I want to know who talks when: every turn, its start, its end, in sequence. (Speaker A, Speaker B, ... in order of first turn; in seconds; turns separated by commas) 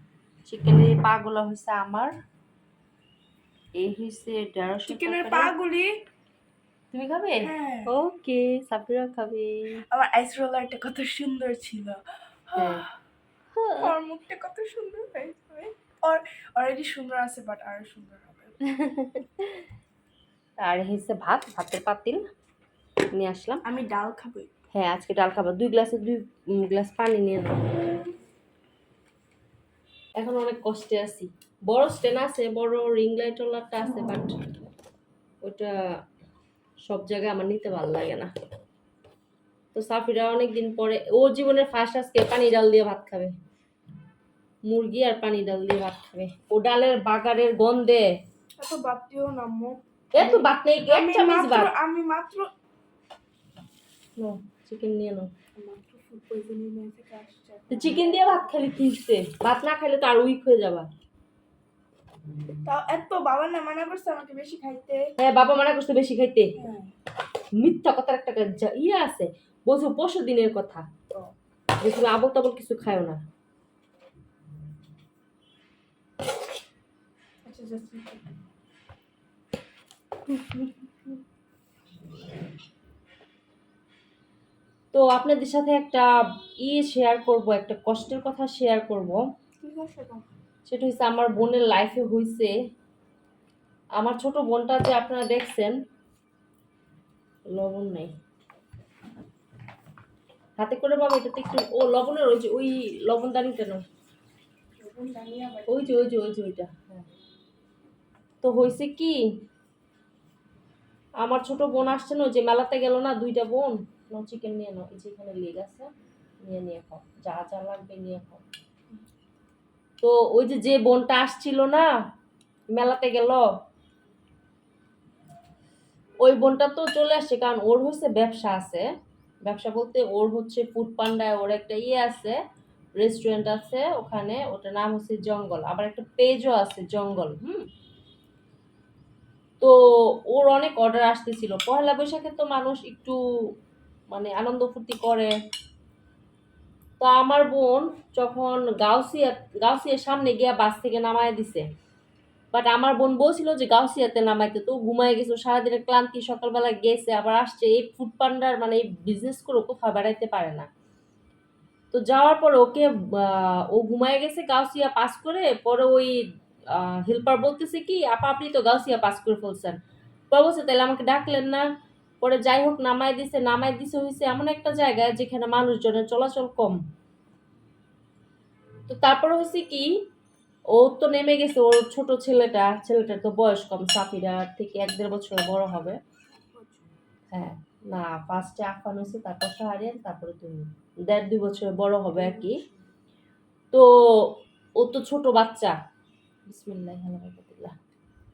Speaker A: 0.5-2.1, Speaker A: 3.8-5.5, Speaker B: 4.9-6.0, Speaker A: 6.9-9.8, Speaker B: 7.4-7.9, Speaker B: 9.9-12.9, Speaker A: 12.6-12.8, Speaker A: 13.6-13.9, Speaker B: 13.8-18.6, Speaker A: 18.6-19.5, Speaker A: 20.6-22.2, Speaker A: 23.1-23.6, Speaker B: 23.6-24.5, Speaker A: 24.8-27.7, Speaker A: 30.2-34.4, Speaker A: 35.4-35.8, Speaker A: 36.8-38.3, Speaker A: 39.7-43.3, Speaker A: 44.7-48.1, Speaker B: 48.6-52.5, Speaker A: 50.1-51.7, Speaker A: 54.2-55.3, Speaker B: 55.6-58.5, Speaker A: 57.7-60.9, Speaker B: 62.6-65.1, Speaker A: 65.2-66.5, Speaker B: 66.6-66.9, Speaker A: 67.6-70.9, Speaker A: 71.8-73.2, Speaker B: 77.5-78.2, Speaker A: 84.9-86.1, Speaker A: 86.6-89.2, Speaker B: 89.6-90.2, Speaker A: 90.7-92.5, Speaker A: 94.0-95.8, Speaker A: 97.5-98.1, Speaker A: 100.6-103.8, Speaker B: 104.8-106.0, Speaker A: 105.7-107.1, Speaker A: 108.4-109.2, Speaker A: 111.2-115.9, Speaker A: 116.4-118.4, Speaker A: 120.0-121.9, Speaker A: 122.7-123.5, Speaker A: 126.2-128.9, Speaker A: 129.4-132.4, Speaker A: 133.0-137.7, Speaker A: 140.3-143.2, Speaker A: 144.1-145.3, Speaker A: 147.0-151.7, Speaker A: 152.5-160.7, Speaker A: 161.9-166.2, Speaker A: 166.8-169.8, Speaker A: 170.3-171.7, Speaker A: 172.2-176.8, Speaker A: 178.9-180.0, Speaker A: 180.8-186.0, Speaker B: 186.5-186.9, Speaker A: 187.3-192.6, Speaker B: 192.2-192.8, Speaker A: 193.7-195.8, Speaker A: 196.5-197.8